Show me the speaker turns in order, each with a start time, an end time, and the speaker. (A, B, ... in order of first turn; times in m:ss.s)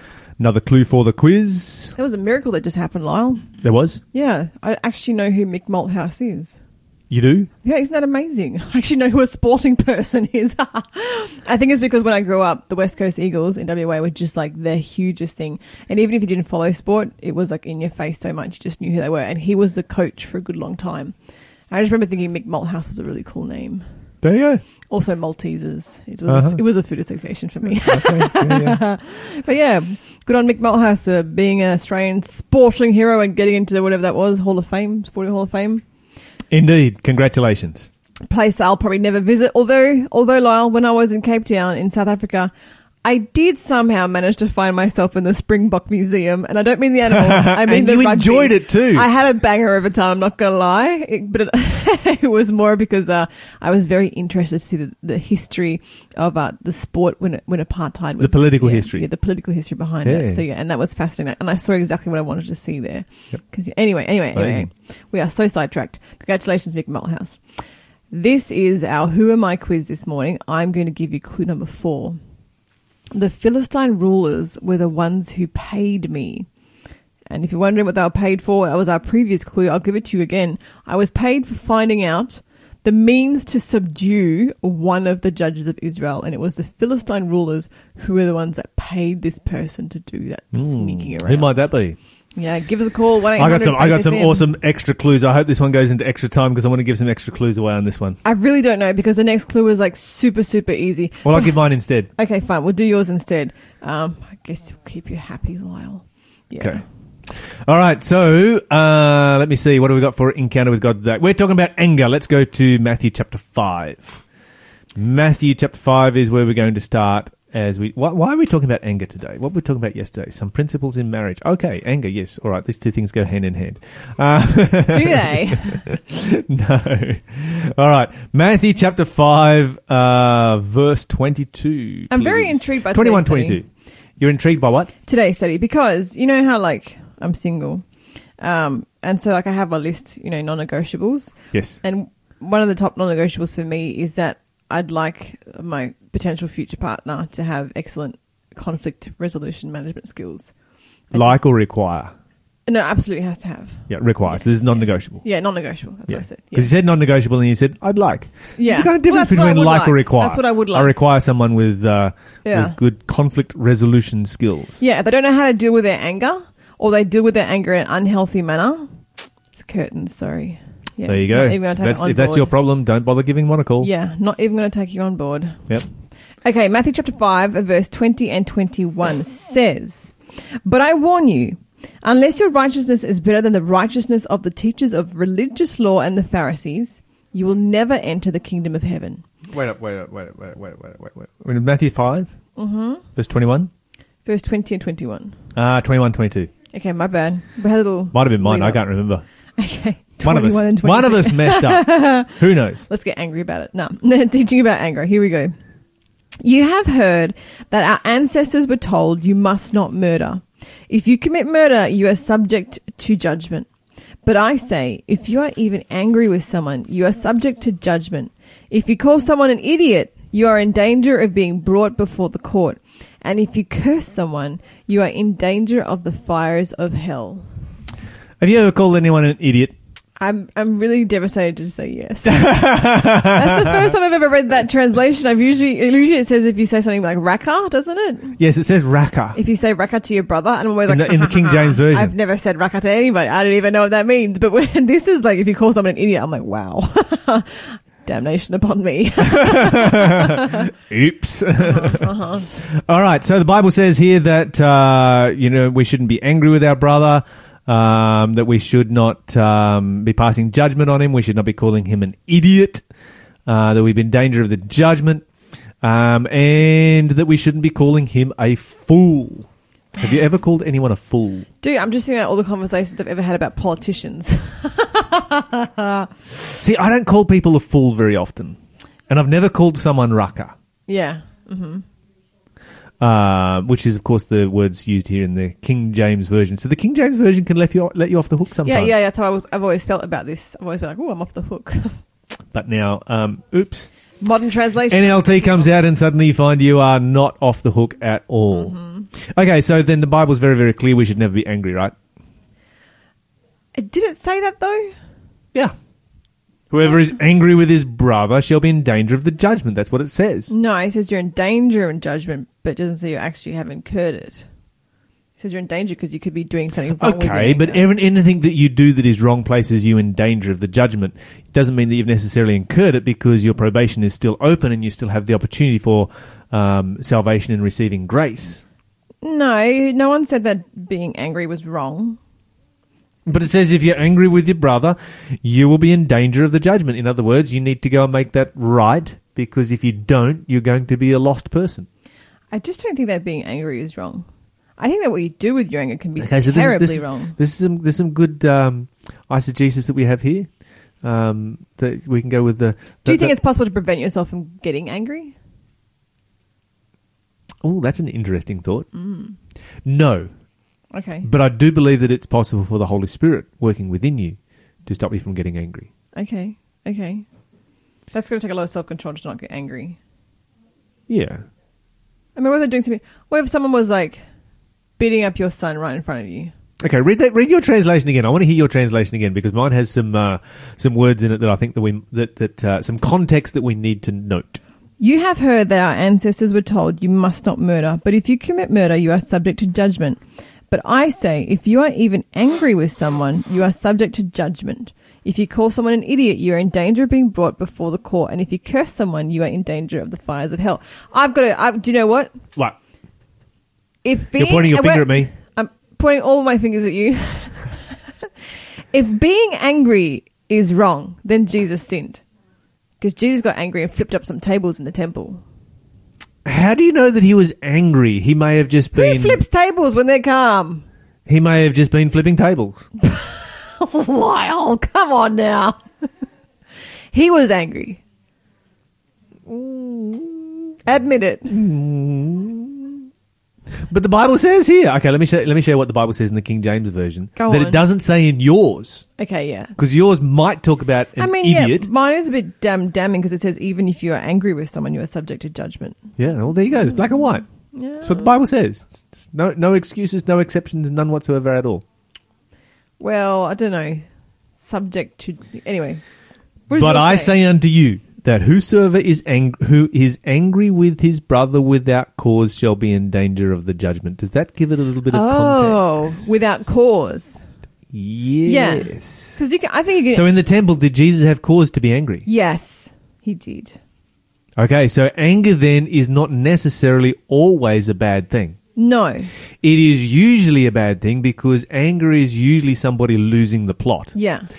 0:00.4-0:02.0 A
0:02.0-0:03.5 B
0:03.6-0:04.0 A
0:04.1-0:06.6 B
0:07.1-0:07.5 A
0:07.6-0:21.2 B
0:21.7-0:23.9 B
0:24.2-0:24.6 A
0:24.9-0:35.8 B
0:26.3-0:26.6 A
0:27.9-0:28.8 A
0:36.5-0:37.9 A
0:38.3-0:42.5 B
0:43.0-1:12.2 B
0:47.1-0:49.0 A
0:58.2-0:59.0 A
1:00.0-1:00.4 A
1:04.3-1:04.6 A
1:13.1-1:16.5 B
1:17.3-1:31.7 B
1:30.5-1:32.0 A
1:32.4-1:34.4 B
1:33.4-1:38.2 A
1:38.2-1:41.6 B
1:41.2-1:42.1 A
1:42.2-1:46.8 B
1:46.6-1:54.2 A
1:55.0-2:13.7 A
2:04.9-2:05.9 B
2:12.1-2:13.6 B
2:14.2-2:14.9 A
2:15.1-2:31.4 B
2:21.5-2:21.8 A
2:31.1-2:32.1 A
2:32.7-2:36.7 B
2:33.9-2:35.2 A
2:36.1-2:44.8 A
2:38.6-2:41.0 B
2:42.4-2:42.8 B
2:44.8-2:52.5 B
2:51.0-2:53.9 A
2:53.8-2:55.8 B
2:56.4-3:09.2 B
3:09.5-3:12.4 A
3:12.6-3:13.0 B
3:13.2-3:13.7 A
3:14.2-3:15.4 B
3:15.6-3:16.5 A
3:16.7-3:18.9 B
3:18.1-3:19.2 A
3:19.6-3:25.6 B
3:20.2-3:22.8 A
3:26.4-3:33.7 B
3:34.2-3:47.5 B
3:48.4-3:49.7 A
3:50.2-3:58.4 B
3:52.2-3:53.6 A
3:58.4-3:59.4 A
3:59.4-4:10.4 B
4:00.9-4:02.1 A
4:09.4-4:12.1 A
4:11.7-4:12.5 B
4:12.6-4:22.8 A
4:23.5-4:25.3 A
4:25.8-4:31.5 A
4:30.0-4:30.2 B
4:31.6-4:36.1 B
4:36.6-4:40.5 A
4:40.9-4:41.8 B
4:43.0-4:48.9 A
4:48.6-4:52.0 B
4:52.5-4:53.9 A
4:54.2-4:55.7 B
4:54.9-5:01.9 A
4:58.5-4:59.1 B
5:03.8-5:05.0 B
5:06.7-5:10.5 A
5:10.5-5:14.5 B
5:15.4-5:17.8 B
5:17.0-5:28.6 A
5:29.2-5:32.2 B
5:33.3-5:41.9 A
5:42.5-5:47.4 B
5:46.2-5:50.5 A
5:51.0-5:53.3 A
5:53.0-5:55.4 B
5:57.6-5:58.9 A
5:58.9-5:59.4 B
5:59.8-6:00.3 A
6:00.9-6:01.3 B
6:01.2-6:05.9 A
6:06.2-6:07.2 B
6:08.1-6:10.0 B
6:11.1-6:11.5 A
6:12.4-6:14.2 B
6:15.0-6:16.5 B
6:16.8-6:24.6 A
6:25.0-6:42.4 B
6:44.0-6:48.2 B
6:44.4-6:45.3 A
6:48.9-6:52.2 B
6:53.0-6:55.4 B
6:56.4-6:59.4 A
6:59.0-7:00.8 B
7:01.3-7:02.9 A
7:03.0-7:05.8 B
7:07.1-7:08.0 B
7:09.5-7:10.4 A
7:10.8-7:11.5 B
7:11.5-7:12.8 A
7:13.9-7:19.1 A
7:17.4-7:17.8 B
7:19.2-7:19.8 B
7:19.8-7:21.9 A
7:21.2-7:26.2 B
7:26.2-7:31.8 A
7:26.8-7:28.3 B
7:33.0-7:34.1 B
7:34.6-7:36.0 B
7:36.7-7:37.3 B
7:36.7-7:46.6 A
7:45.1-7:47.5 B
7:47.9-7:49.4 A
7:48.4-7:50.3 B
7:50.1-7:52.3 A
7:52.3-7:53.8 B
7:54.6-7:58.6 A
7:58.8-7:59.3 B
7:59.6-8:04.1 A
8:04.2-8:04.5 B